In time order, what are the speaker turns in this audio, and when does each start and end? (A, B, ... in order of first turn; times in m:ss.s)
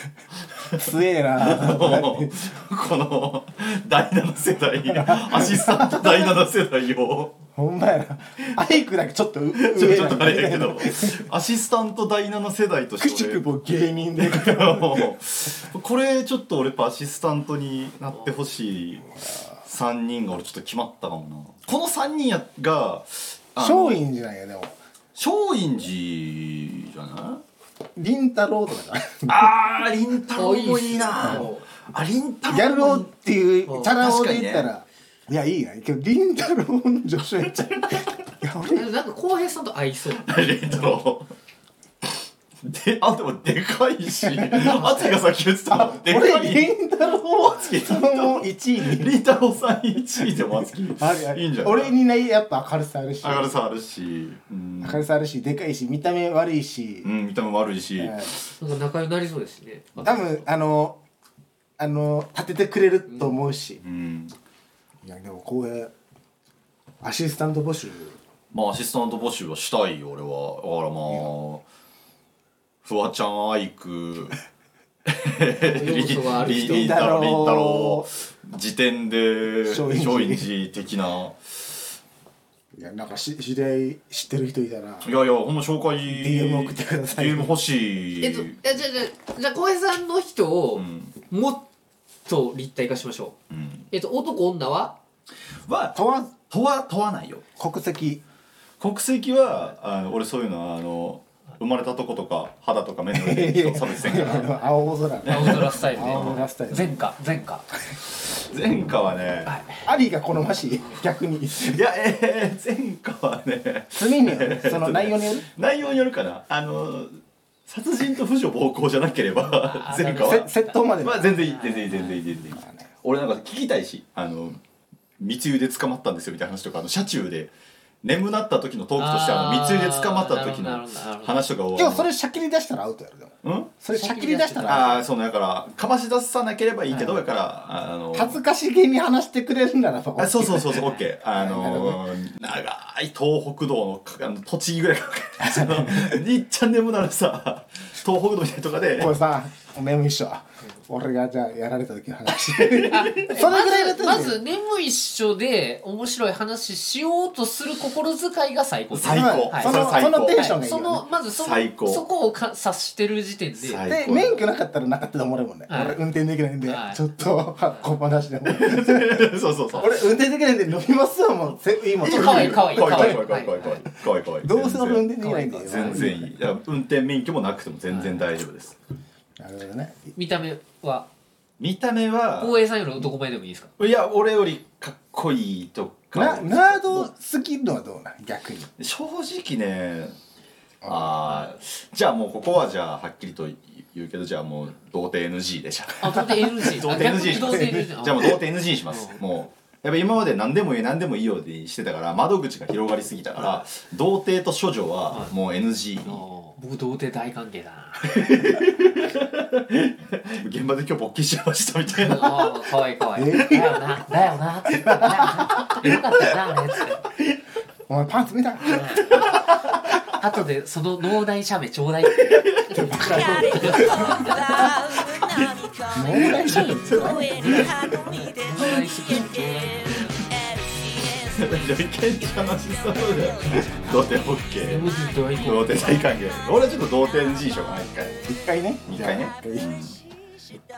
0:00.7-0:02.5 A
0:01.4-0:07.4 B
0:04.8-0:06.4 A
0:07.6-0:11.2 A
0:09.5-0:13.5 B
0:13.0-0:15.1 A
0:14.2-0:24.1 B
0:23.6-0:24.7 A
0:25.2-0:27.4 B
0:28.0-0:29.5 A
0:29.3-0:33.1 B
0:30.4-0:31.6 C
0:31.2-0:31.4 A
0:32.5-0:38.9 A
0:33.7-0:34.0 C
0:33.8-0:34.7 B
0:38.6-0:40.8 C
0:40.2-0:41.3 B
0:42.6-0:52.0 B
0:44.3-0:45.0 A
0:44.7-0:45.2 C
0:45.7-0:49.1 A
0:51.0-0:53.6 A
0:53.2-0:55.1 B
0:54.8-0:57.1 A
0:57.0-0:58.5 B
0:58.0-0:58.3 A
0:58.6-1:00.2 C
1:00.0-1:01.0 A
1:01.8-1:03.8 A
1:03.1-1:03.4 C
1:03.8-1:04.3 B
1:05.0-1:05.9 A
1:07.0-1:08.2 A
1:08.5-1:11.6 B
1:12.8-1:14.4 B
1:15.1-1:21.4 B
1:15.6-1:17.1 C
1:16.4-1:18.1 A
1:19.7-1:20.5 A
1:22.7-1:25.1 A
1:25.0-1:28.6 B
1:26.1-1:27.6 A
1:28.2-1:31.7 C
1:30.7-1:31.2 B
1:32.3-1:33.3 C
1:33.5-1:33.9 B
1:33.9-1:35.0 C
1:35.7-1:37.4 B
1:35.9-1:36.3 A
1:37.6-1:38.2 A
1:38.8-1:44.5 B
1:43.1-1:47.0 A
1:45.2-1:47.0 B
1:45.2-1:47.7 C
1:48.4-1:49.6 B
1:49.4-1:49.8 C
1:49.8-1:51.8 A
1:51.5-1:57.1 B
1:53.9-1:55.5 A
1:57.7-2:04.6 B
1:59.4-2:02.2 C
2:00.2-2:01.4 A
2:02.5-2:02.9 A
2:05.2-2:07.5 B
2:08.0-2:12.1 B
2:09.0-2:11.5 C
2:11.8-2:15.0 A
2:13.4-2:13.8 B
2:13.9-2:15.1 C
2:14.6-2:18.4 B
2:16.9-2:17.2 C
2:18.1-2:22.0 A
2:20.2-2:29.2 B
2:25.4-2:26.1 A
2:29.0-2:34.4 A
2:32.3-2:33.4 B
2:32.9-2:43.8 C
2:38.9-2:40.5 B
2:39.0-2:41.0 A
2:41.3-2:42.0 B
2:43.6-2:44.5 B
2:43.9-2:53.3 A
2:45.7-2:46.0 C
2:46.6-2:47.0 C
2:48.4-2:50.1 B
2:52.0-2:58.8 B
2:52.0-2:53.8 C
2:54.4-2:56.3 A
2:55.2-2:56.2 C
2:57.9-2:58.3 C
2:59.4-3:00.1 A
3:00.2-3:01.1 C
3:01.6-3:02.6 B
3:02.3-3:03.7 C
3:03.8-3:07.1 B
3:06.1-3:08.7 A
3:08.8-3:10.2 B
3:10.8-3:11.2 A
3:10.8-3:26.2 B
3:16.0-3:19.2 C
3:17.4-3:17.8 A
3:26.0-3:28.0 C
3:28.0-3:32.7 B
3:32.0-3:37.0 C
3:33.2-3:34.0 A
3:35.5-3:36.0 B
3:37.9-3:39.2 A
3:38.6-3:39.2 C
3:39.1-3:39.4 B
3:40.0-3:44.3 C
3:42.2-3:43.2 B
3:42.7-3:44.7 A
3:44.5-3:48.0 B
3:45.9-3:47.8 A
3:48.0-3:50.3 C
3:48.6-3:49.3 B
3:51.2-3:54.9 B
3:54.6-3:56.0 C
3:55.4-3:58.2 B
3:58.2-3:59.7 A
3:58.9-4:00.0 B